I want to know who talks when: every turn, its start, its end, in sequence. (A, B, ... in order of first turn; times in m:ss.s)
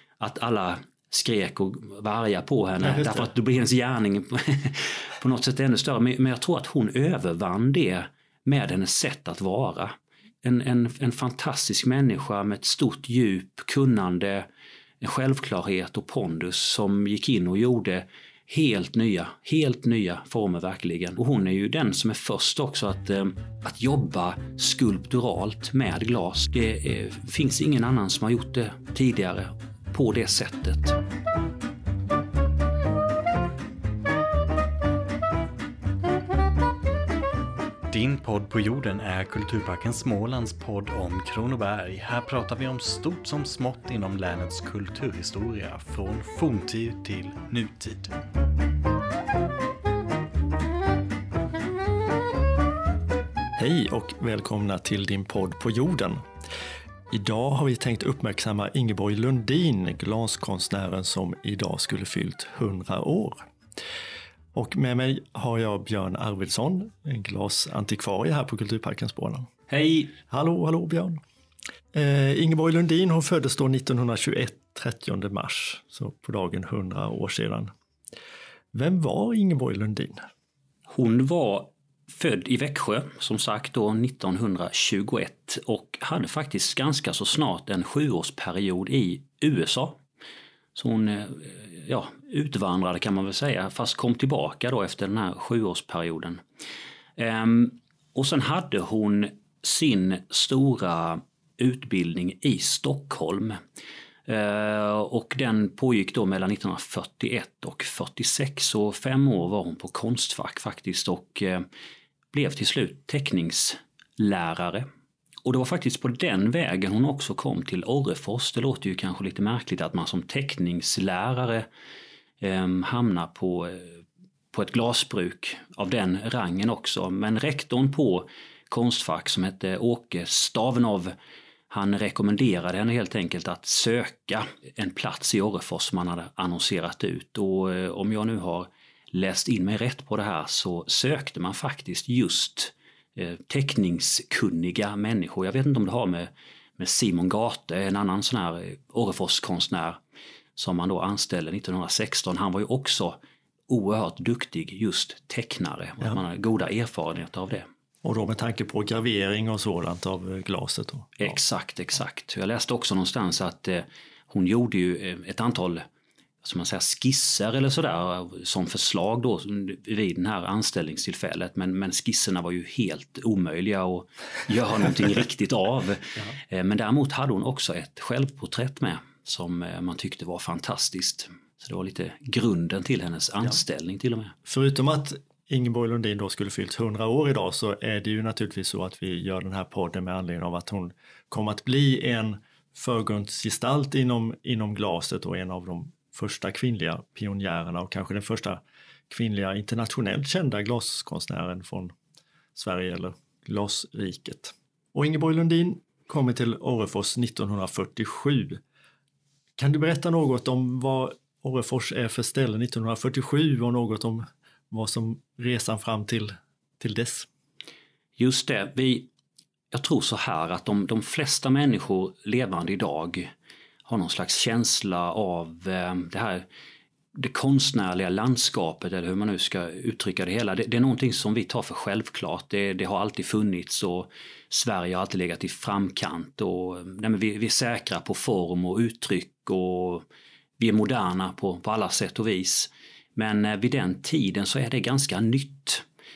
0:00.2-0:14.5 A
0:02.8-0:03.3 B
0:15.0-0:31.0 A
0:37.9-0:48.2 C
0:53.6-0:56.2 B
0:57.1-1:03.4 B
1:04.5-1:09.5 B
1:09.7-1:10.1 A
1:10.2-1:11.2 B
1:11.9-1:17.7 B
1:18.7-1:20.2 B
1:20.9-1:30.0 A
1:30.8-1:36.4 A
1:37.2-1:43.6 A
1:44.3-1:51.7 A
1:52.3-1:54.9 A
1:55.4-2:01.7 A
2:02.4-2:04.0 A
2:04.5-2:11.1 A
2:11.7-2:30.0 A
2:30.6-2:37.7 A
2:38.0-2:41.2 B
2:41.2-2:45.8 A
2:46.4-3:04.4 A
3:04.5-3:22.0 B
3:22.6-3:28.6 B
3:29.6-3:37.3 B
3:38.2-3:39.1 A
3:39.7-3:43.3 A
3:43.9-3:46.5 A
3:47.2-4:00.0 A
4:00.6-4:05.8 A